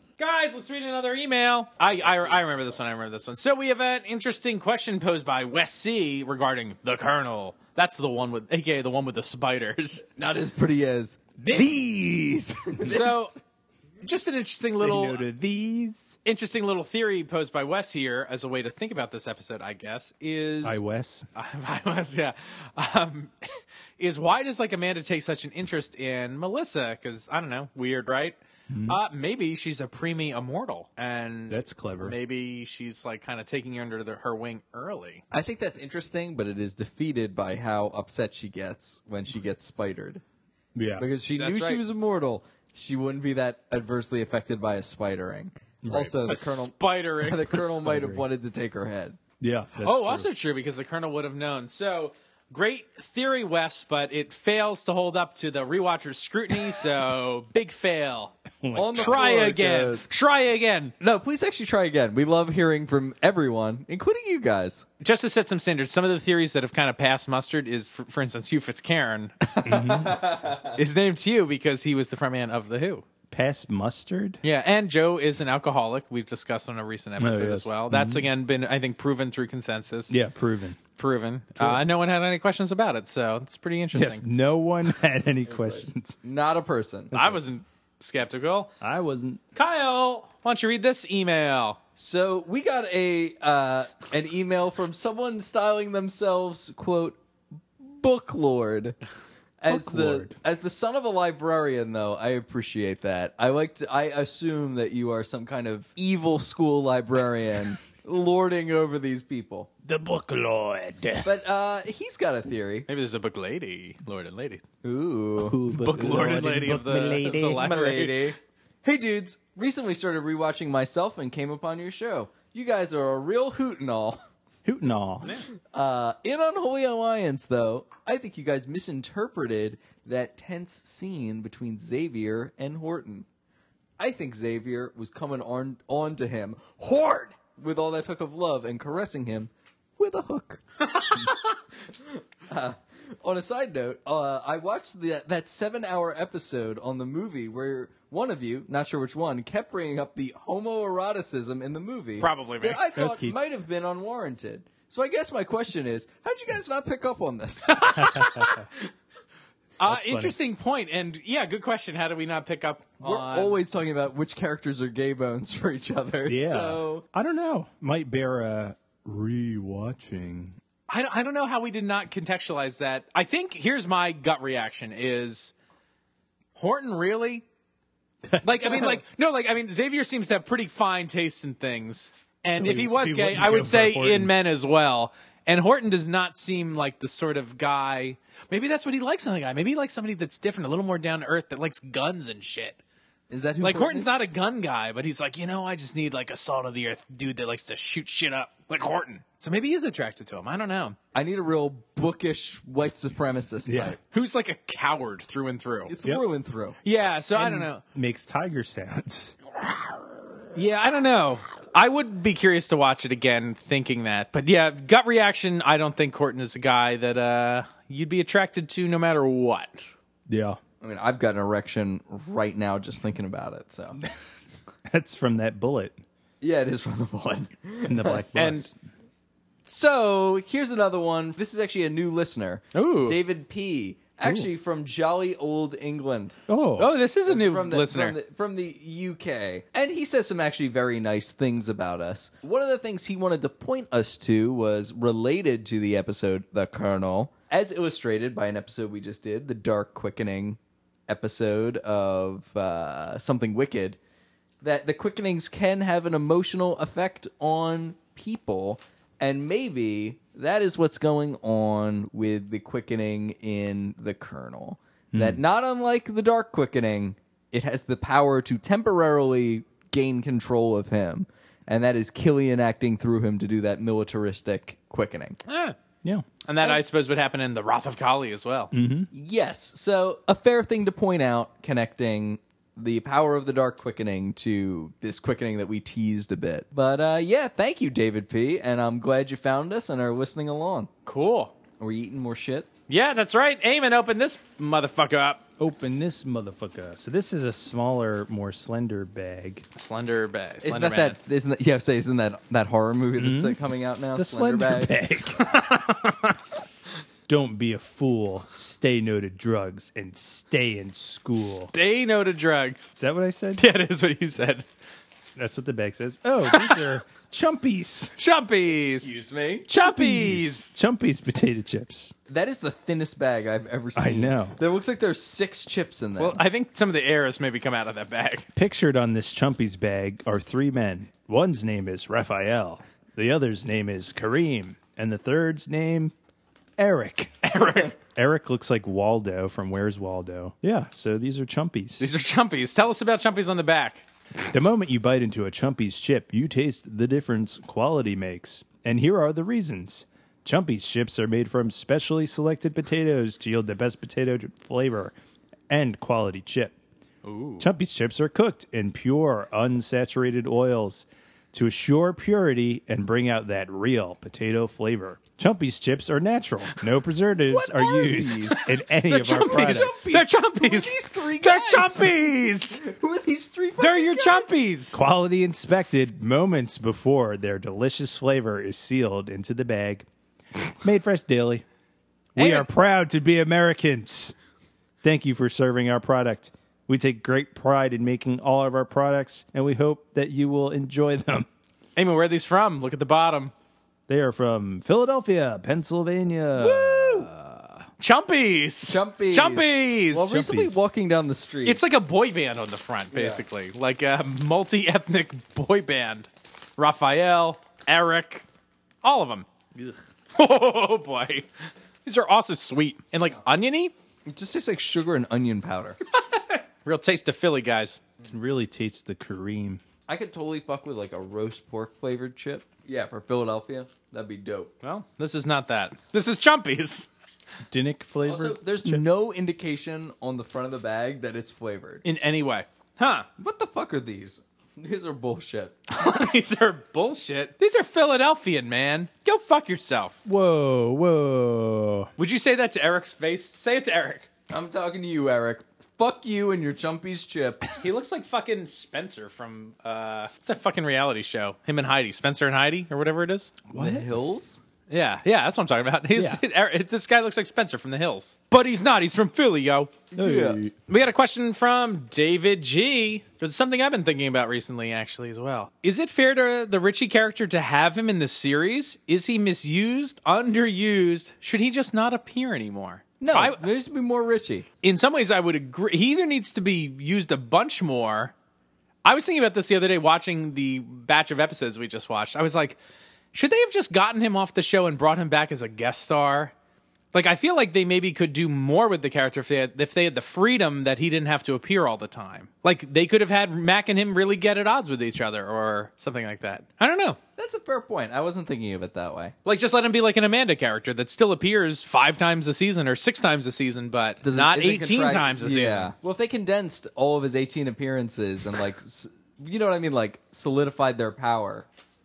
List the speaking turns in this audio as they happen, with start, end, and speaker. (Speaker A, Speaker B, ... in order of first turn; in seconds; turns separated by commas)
Speaker A: 0.2-10.0, Speaker B: 2.0-2.6, Speaker B: 10.2-13.4, Speaker A: 11.4-11.7, Speaker A: 12.8-13.4, Speaker A: 14.0-15.2, Speaker C: 14.7-16.1, Speaker A: 16.2-20.8, Speaker C: 20.6-21.2, Speaker A: 21.4-23.3, Speaker A: 24.0-35.2, Speaker C: 28.7-29.0, Speaker C: 31.5-32.1, Speaker B: 35.3-40.2, Speaker C: 40.8-41.0, Speaker B: 41.0-49.2, Speaker A: 41.4-41.8, Speaker C: 45.8-46.1, Speaker A: 46.3-47.7, Speaker C: 47.8-48.2, Speaker C: 49.4-50.3, Speaker A: 49.8-58.4, Speaker C: 58.6-59.3, Speaker B: 58.8-60.1, Speaker A: 59.0-60.9, Speaker B: 61.0-64.9, Speaker A: 65.0-69.3, Speaker B: 69.4-70.8, Speaker C: 69.7-70.2, Speaker A: 70.8-73.0, Speaker C: 73.3-74.4, Speaker A: 74.4-80.2, Speaker C: 77.2-78.3, Speaker C: 80.1-80.8, Speaker A: 81.0-84.2, Speaker C: 81.6-81.8, Speaker C: 83.9-86.2, Speaker B: 85.5-87.2, Speaker C: 87.1-87.4, Speaker A: 87.1-88.7, Speaker C: 88.8-89.4, Speaker A: 89.5-91.8, Speaker B: 92.0-97.2, Speaker B: 97.8-99.0, Speaker B: 99.6-109.7, Speaker C: 99.7-100.3, Speaker C: 109.8-111.3, Speaker B: 111.2-112.9, Speaker A: 112.9-114.6, Speaker B: 114.8-116.3, Speaker C: 115.4-117.8, Speaker A: 115.7-118.3, Speaker B: 117.4-124.2, Speaker C: 124.7-125.3, Speaker A: 125.2-125.5, Speaker B: 125.6-133.3, Speaker B: 134.0-141.3, Speaker A: 140.9-141.4, Speaker B: 141.9-157.9, Speaker A: 152.2-152.8, Speaker C: 153.0-153.3, Speaker A: 157.7-158.9, Speaker C: 158.0-158.6, Speaker A: 159.8-163.6, Speaker C: 159.8-160.3, Speaker B: 163.0-167.0, Speaker C: 166.3-170.6, Speaker A: 170.9-175.5, Speaker A: 176.6-177.4, Speaker C: 178.2-179.0, Speaker A: 178.4-192.8, Speaker C: 182.5-184.3, Speaker B: 193.3-194.1, Speaker A: 193.6-201.0, Speaker B: 201.1-204.0, Speaker C: 203.7-204.0, Speaker A: 204.1-205.9, Speaker B: 205.9-206.8, Speaker A: 206.8-207.8, Speaker C: 207.3-209.4, Speaker A: 210.6-219.8, Speaker C: 220.3-220.6, Speaker B: 220.8-224.0, Speaker C: 224.9-226.0, Speaker B: 226.4-228.3, Speaker C: 227.8-228.7, Speaker A: 228.3-228.7, Speaker B: 229.7-236.4, Speaker A: 232.7-233.2, Speaker C: 236.5-236.9, Speaker A: 236.8-238.2, Speaker B: 237.3-254.0, Speaker B: 254.6-275.4, Speaker C: 265.1-265.4, Speaker A: 275.5-275.8, Speaker A: 276.4-278.7, Speaker C: 278.7-279.1, Speaker B: 279.1-290.9, Speaker A: 291.1-291.5, Speaker B: 291.8-292.7, Speaker A: 292.9-295.4, Speaker C: 295.6-299.6, Speaker A: 299.8-301.2, Speaker B: 300.6-304.9, Speaker C: 303.2-303.6, Speaker C: 304.1-305.6, Speaker A: 305.4-306.1, Speaker C: 307.3-311.7, Speaker A: 311.3-312.9, Speaker C: 313.0-313.6, Speaker A: 313.6-314.7, Speaker C: 315.4-318.1, Speaker A: 316.5-316.8, Speaker A: 318.2-319.1, Speaker B: 318.8-319.7, Speaker A: 319.7-320.8, Speaker C: 319.8-322.1, Speaker B: 322.3-326.4, Speaker C: 324.0-324.6, Speaker A: 326.2-328.5, Speaker C: 328.6-336.1, Speaker C: 336.8-342.1, Speaker A: 337.4-337.9, Speaker A: 342.0-344.1, Speaker C: 344.5-355.1, Speaker C: 355.7-356.8, Speaker A: 357.2-357.7, Speaker C: 357.6-369.9, Speaker B: 367.5-368.7, Speaker A: 368.5-372.8, Speaker B: 369.3-372.1, Speaker B: 372.7-374.5, Speaker A: 373.8-375.0, Speaker C: 374.9-380.1, Speaker C: 380.8-381.6, Speaker A: 382.4-382.7, Speaker C: 382.4-384.3, Speaker C: 385.0-391.5, Speaker A: 392.0-393.5, Speaker C: 394.1-397.9, Speaker B: 396.6-397.3, Speaker A: 398.0-400.3, Speaker B: 398.9-401.8, Speaker C: 400.3-400.8, Speaker A: 401.6-408.4, Speaker B: 403.1-403.5, Speaker A: 409.0-409.5, Speaker A: 410.3-411.5, Speaker A: 412.1-413.9, Speaker B: 414.3-416.0, Speaker A: 416.1-418.0, Speaker C: 418.3-419.8, Speaker B: 420.1-424.7, Speaker A: 424.8-427.1, Speaker C: 427.7-429.0, Speaker B: 428.3-432.0, Speaker A: 432.0-433.3, Speaker B: 433.4-435.9, Speaker A: 435.9-440.2, Speaker C: 440.3-442.1, Speaker A: 442.2-444.3, Speaker B: 444.5-447.8, Speaker A: 447.8-453.6, Speaker C: 453.7-454.1, Speaker B: 453.7-454.6, Speaker A: 454.9-460.0, Speaker C: 456.1-456.4, Speaker B: 460.1-460.6, Speaker C: 460.1-460.7, Speaker A: 460.9-473.6, Speaker B: 473.2-474.7, Speaker A: 474.8-478.3, Speaker A: 479.1-482.8, Speaker A: 483.3-486.5, Speaker A: 487.1-497.2, Speaker B: 497.4-499.4, Speaker A: 499.4-505.9, Speaker B: 504.2-511.7